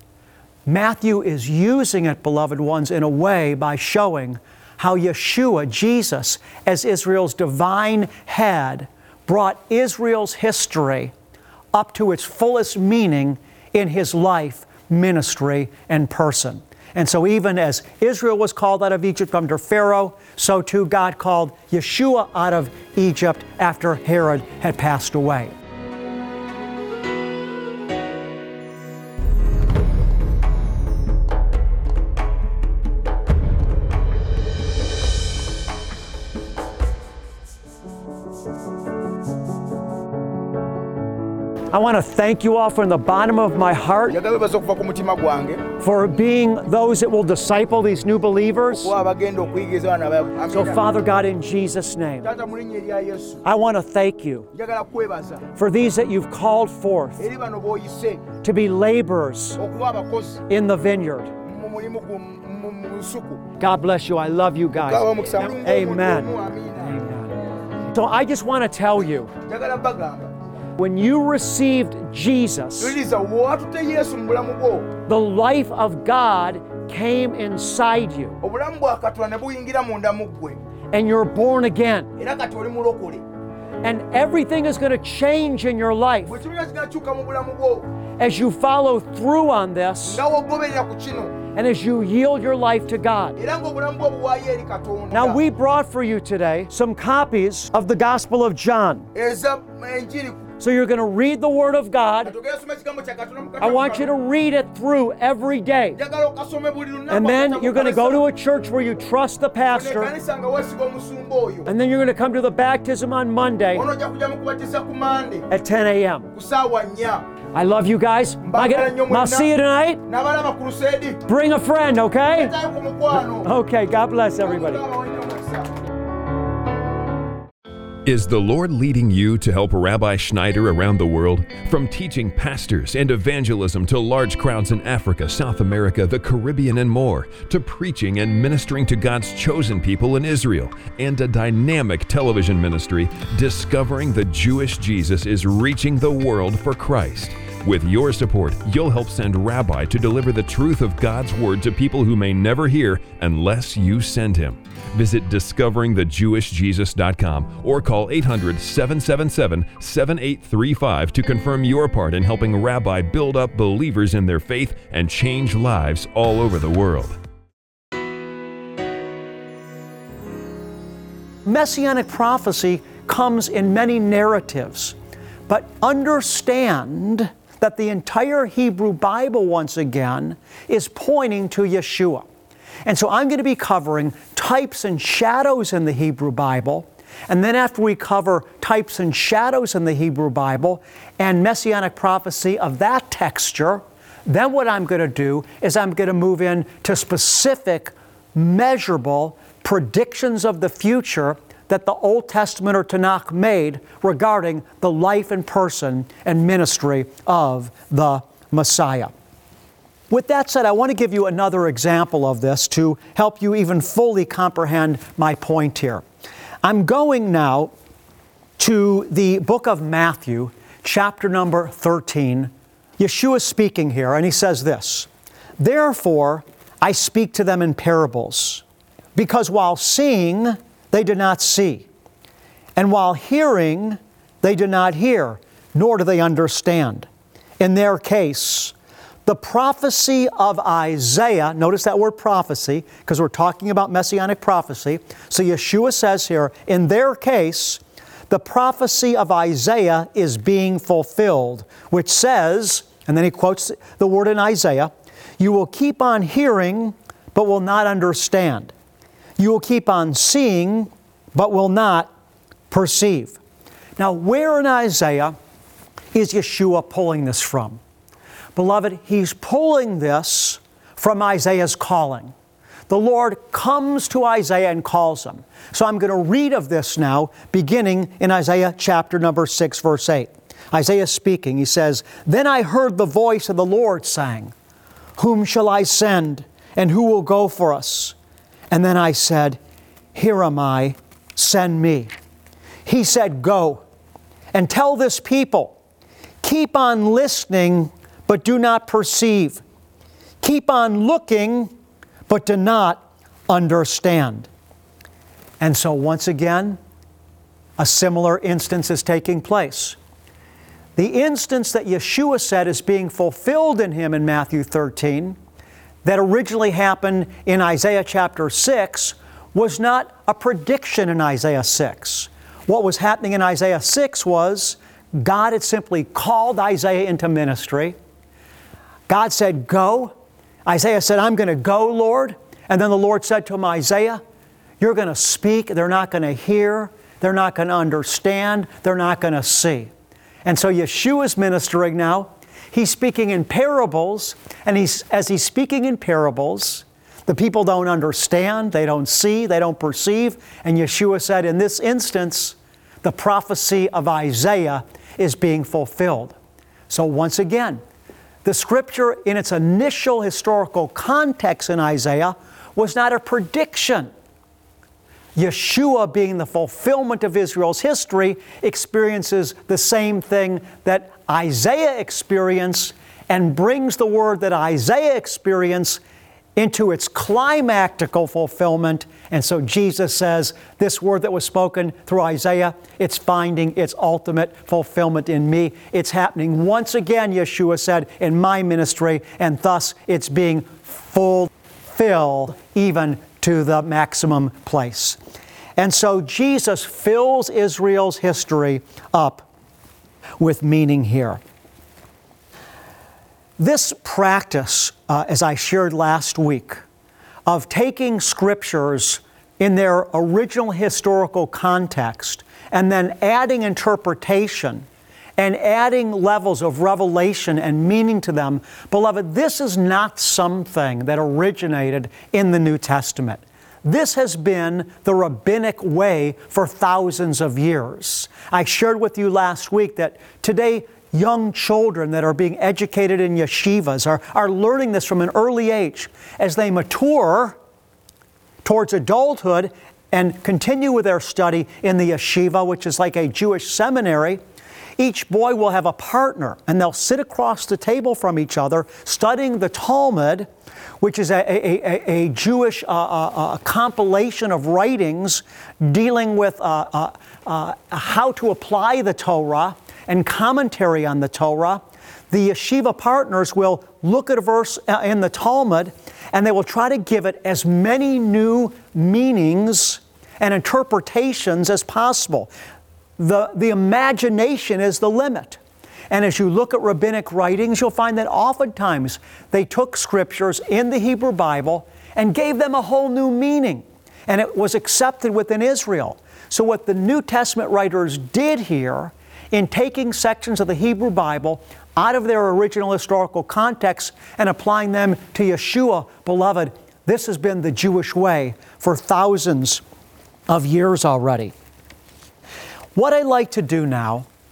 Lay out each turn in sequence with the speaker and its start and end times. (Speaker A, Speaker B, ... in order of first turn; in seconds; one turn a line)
Speaker A: 0.7-11.1
Speaker A: 11.7-25.5
Speaker A: 41.7-44.2
Speaker B: 44.1-45.6
Speaker A: 45.8-48.9
Speaker B: 48.8-50.8
Speaker A: 50.5-52.3
Speaker B: 52.2-53.4
Speaker A: 53.4-54.5
Speaker B: 54.5-55.4
Speaker A: 55.5-57.2
Speaker B: 57.2-58.2
Speaker A: 58.4-59.6
Speaker B: 59.6-60.4
Speaker A: 60.5-61.3
Speaker B: 61.4-63.4
Speaker A: 63.6-67.3
Speaker B: 64.8-67.0
Speaker A: 67.9-69.3
Speaker B: 69.4-70.3
Speaker A: 70.8-73.0
Speaker B: 72.8-74.9
Speaker A: 75.0-78.4
Speaker B: 78.4-80.6
Speaker A: 80.9-82.1
Speaker B: 82.2-83.2
Speaker A: 83.8-86.3
Speaker B: 86.3-87.8
Speaker A: 88.2-90.2
Speaker B: 90.0-91.4
Speaker A: 91.5-93.4
Speaker B: 93.4-95.4
Speaker A: 95.1-99.1
Speaker B: 99.1-100.4
Speaker A: 100.6-102.3
Speaker B: 102.2-104.1
Speaker A: 103.6-106.0
Speaker B: 106.0-108.2
Speaker A: 107.1-110.1
Speaker B: 109.7-111.7
Speaker A: 111.7-113.8
Speaker B: 113.7-115.5
Speaker A: 115.5-116.3
Speaker B: 116.3-117.2
Speaker A: 117.5-120.0
Speaker B: 118.4-119.5
Speaker B: 120.1-121.2
Speaker A: 121.3-122.5
Speaker B: 122.4-123.5
Speaker A: 123.1-124.8
Speaker B: 124.4-125.7
Speaker C: 128.0-167.2
Speaker A: 171.4-174.9
Speaker A: 175.5-182.2
Speaker A: 182.8-209.1
Speaker A: 210.1-216.0
Speaker A: 216.6-217.7
Speaker A: 218.6-225.1
Speaker A: 225.6-228.6
Speaker A: 229.1-231.9
Speaker A: 232.8-237.1
Speaker A: 237.6-238.7
Speaker A: 239.2-258.7
Speaker A: 259.4-262.1
Speaker A: 262.7-263.4
Speaker A: 264.0-265.4
Speaker A: 266.1-267.8
Speaker A: 268.5-272.3
Speaker A: 272.9-284.5
Speaker A: 285.2-288.1
Speaker A: 288.7-289.6
Speaker A: 290.1-292.1
Speaker A: 292.8-293.8
Speaker A: 294.5-295.7
Speaker A: 296.4-299.6
Speaker A: 300.4-301.7
Speaker A: 302.3-304.5
Speaker A: 305.6-306.8
Speaker A: 307.8-310.0
Speaker A: 310.9-315.4
Speaker A: 316.0-327.9
Speaker A: 329.1-330.1
Speaker A: 330.6-334.2
Speaker A: 334.8-339.9
Speaker A: 340.4-356.4
Speaker A: 356.9-357.8
Speaker A: 358.4-364.1
Speaker A: 365.4-376.0
Speaker A: 376.6-395.2
Speaker A: 395.8-399.4
Speaker A: 400.4-401.4
Speaker A: 403.6-406.8
Speaker A: 407.4-414.8
Speaker A: 415.4-437.6
Speaker A: 438.6-444.4
Speaker A: 445.0-450.5
Speaker A: 451.0-472.5
Speaker A: 473.2-475.6
Speaker A: 476.1-499.8
Speaker A: 500.5-501.5
Speaker A: 502.9-504.3